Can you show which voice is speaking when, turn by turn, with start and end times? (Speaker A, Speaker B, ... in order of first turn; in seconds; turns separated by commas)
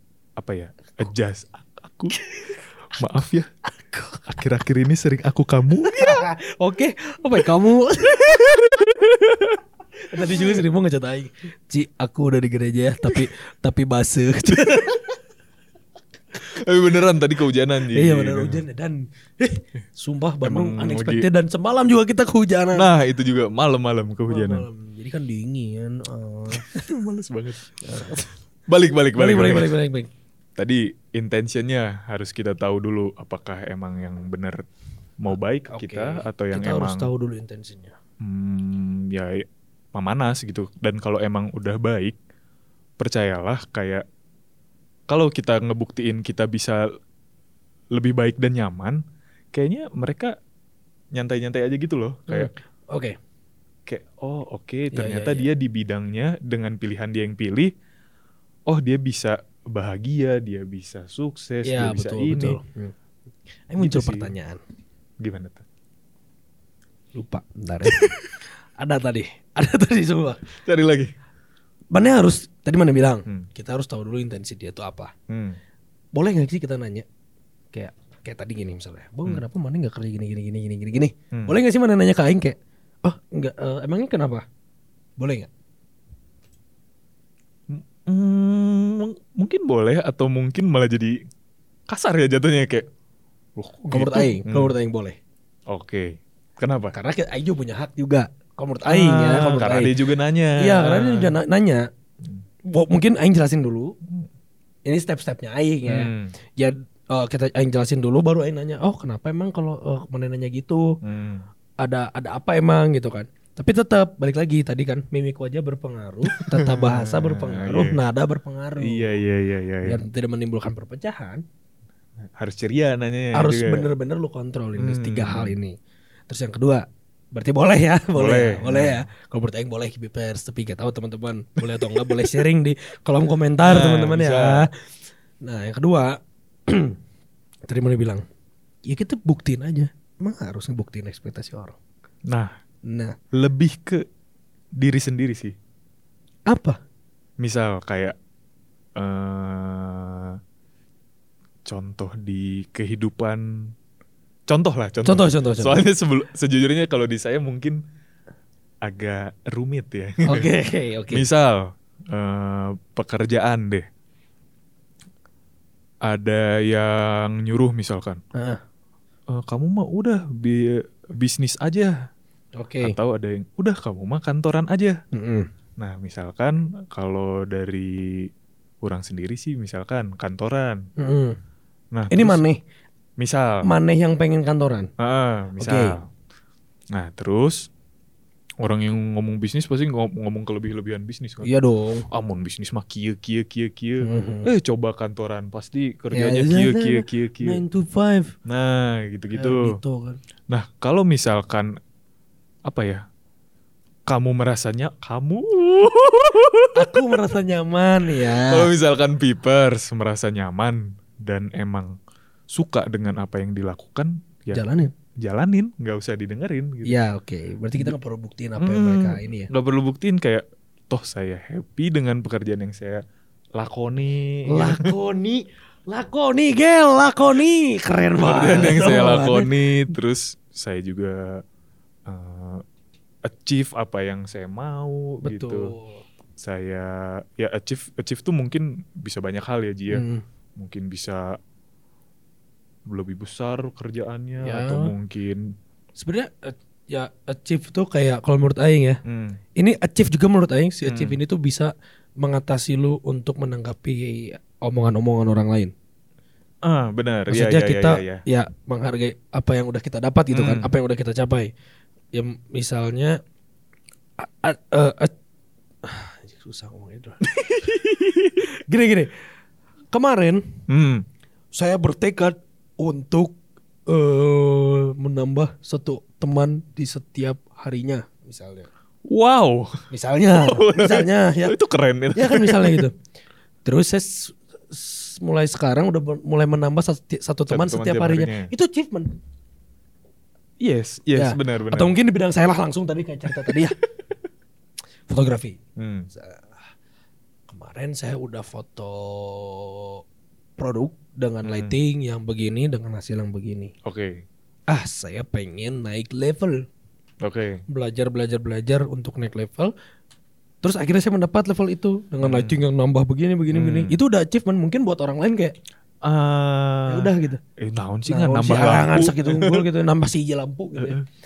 Speaker A: 0.4-2.2, Speaker A: 3.0-3.5, Speaker B: 3.9-4.2, Speaker A: 4.2-6.2, Speaker B: 5.9-8.7, Speaker A: 8.7-9.6, Speaker B: 10.1-15.1, Speaker A: 10.3-10.6, Speaker A: 14.5-14.8, Speaker A: 16.4-18.6, Speaker B: 17.9-22.9, Speaker A: 20.4-21.3, Speaker A: 22.8-24.6, Speaker B: 24.3-26.8, Speaker A: 26.5-27.8, Speaker B: 27.8-28.3, Speaker A: 28.7-29.8, Speaker B: 29.1-30.1, Speaker A: 30.6-34.6, Speaker A: 35.2-37.1, Speaker B: 35.7-38.0, Speaker A: 38.2-42.2, Speaker A: 43.0-44.0, Speaker A: 45.1-46.9, Speaker A: 48.0-49.0, Speaker A: 49.5-50.3, Speaker A: 51.1-52.5, Speaker B: 52.3-53.1, Speaker A: 53.9-57.7, Speaker B: 54.9-55.5, Speaker A: 58.7-62.6, Speaker B: 61.6-62.9, Speaker B: 63.7-64.6, Speaker A: 63.8-64.3, Speaker A: 65.2-65.6, Speaker B: 67.2-68.2, Speaker B: 68.8-70.4, Speaker A: 70.6-71.1, Speaker B: 71.9-75.1, Speaker A: 75.3-75.6, Speaker B: 76.2-77.1, Speaker B: 77.7-84.4, Speaker A: 81.3-81.6, Speaker B: 85.2-85.5, Speaker A: 87.7-91.2, Speaker A: 91.9-92.9, Speaker A: 93.6-94.7, Speaker B: 93.9-95.2, Speaker A: 95.7-96.9, Speaker B: 96.9-99.9, Speaker A: 98.9-101.3, Speaker B: 100.6-101.8, Speaker B: 102.7-103.9, Speaker B: 104.9-110.8, Speaker A: 105.9-106.3, Speaker A: 111.0-111.5, Speaker B: 111.8-119.1, Speaker A: 116.4-118.0, Speaker A: 118.8-120.0, Speaker B: 119.8-121.4, Speaker A: 122.4-123.9, Speaker B: 123.3-125.8, Speaker A: 124.8-125.5, Speaker B: 126.3-134.7, Speaker A: 128.2-129.1, Speaker A: 131.6-132.4, Speaker A: 133.6-134.7, Speaker B: 135.4-136.2, Speaker B: 136.7-136.9, Speaker B: 137.7-138.2, Speaker B: 138.9-141.8, Speaker B: 142.9-143.2, Speaker A: 143.3-144.0, Speaker A: 144.8-145.5, Speaker B: 146.5-146.8, Speaker A: 147.4-148.1, Speaker A: 149.0-150.4, Speaker A: 151.7-153.7, Speaker A: 154.5-157.8, Speaker B: 155.0-155.8, Speaker A: 158.8-160.5, Speaker B: 160.3-161.2, Speaker A: 161.1-163.8, Speaker A: 166.1-168.2, Speaker B: 168.3-168.6, Speaker A: 169.3-171.9, Speaker B: 172.6-173.0, Speaker A: 172.8-175.0, Speaker B: 175.1-175.5, Speaker A: 175.8-178.3, Speaker A: 178.8-180.8, Speaker B: 181.0-181.4, Speaker A: 181.9-182.4, Speaker B: 182.1-182.6, Speaker A: 183.2-183.6, Speaker B: 183.6-184.9, Speaker A: 185.0-186.1, Speaker B: 185.6-185.9, Speaker A: 186.9-187.7, Speaker A: 188.6-191.5, Speaker B: 191.4-192.1, Speaker A: 192.1-197.6, Speaker B: 194.0-194.5, Speaker B: 196.1-198.3, Speaker A: 198.5-199.8, Speaker B: 199.3-200.2, Speaker A: 200.5-201.8, Speaker A: 202.7-203.0, Speaker A: 204.1-207.0, Speaker B: 206.8-208.7, Speaker A: 208.3-211.9, Speaker A: 212.5-216.9, Speaker B: 214.5-214.9, Speaker B: 216.8-219.5, Speaker A: 218.6-223.0, Speaker A: 223.6-224.9, Speaker B: 224.5-229.5, Speaker A: 228.2-231.4, Speaker A: 232.1-232.6, Speaker A: 233.2-235.7, Speaker B: 235.2-236.0, Speaker A: 236.4-240.0, Speaker B: 239.9-240.2, Speaker A: 240.6-241.4, Speaker A: 242.9-245.4, Speaker B: 244.4-244.9, Speaker B: 246.0-249.0, Speaker A: 249.1-249.4, Speaker B: 249.6-251.7, Speaker A: 250.8-251.2, Speaker B: 252.2-255.7, Speaker A: 256.6-258.2, Speaker B: 257.3-261.5, Speaker A: 260.3-260.7, Speaker B: 262.1-263.2, Speaker B: 264.2-265.1, Speaker B: 265.9-267.2, Speaker A: 267.2-268.4, Speaker B: 268.4-269.1, Speaker B: 269.9-270.4, Speaker A: 270.7-271.1, Speaker B: 271.5-273.4, Speaker B: 273.9-278.7, Speaker A: 279.1-279.8, Speaker B: 279.9-281.6, Speaker A: 280.4-282.9, Speaker B: 282.1-282.9, Speaker B: 283.6-289.1, Speaker A: 287.5-288.5, Speaker A: 290.6-291.9, Speaker B: 291.2-293.8, Speaker A: 293.3-293.6, Speaker B: 295.1-295.6, Speaker A: 295.8-296.1, Speaker B: 296.1-296.6, Speaker B: 297.5-300.0, Speaker B: 300.6-303.7, Speaker A: 301.4-301.7, Speaker A: 303.9-304.2, Speaker B: 304.7-306.6, Speaker A: 307.2-307.6, Speaker B: 307.7-309.7, Speaker B: 310.6-315.6, Speaker A: 312.2-312.6, Speaker A: 313.5-314.0, Speaker A: 316.0-319.6, Speaker B: 316.9-317.4, Speaker B: 318.1-321.0, Speaker A: 320.8-321.1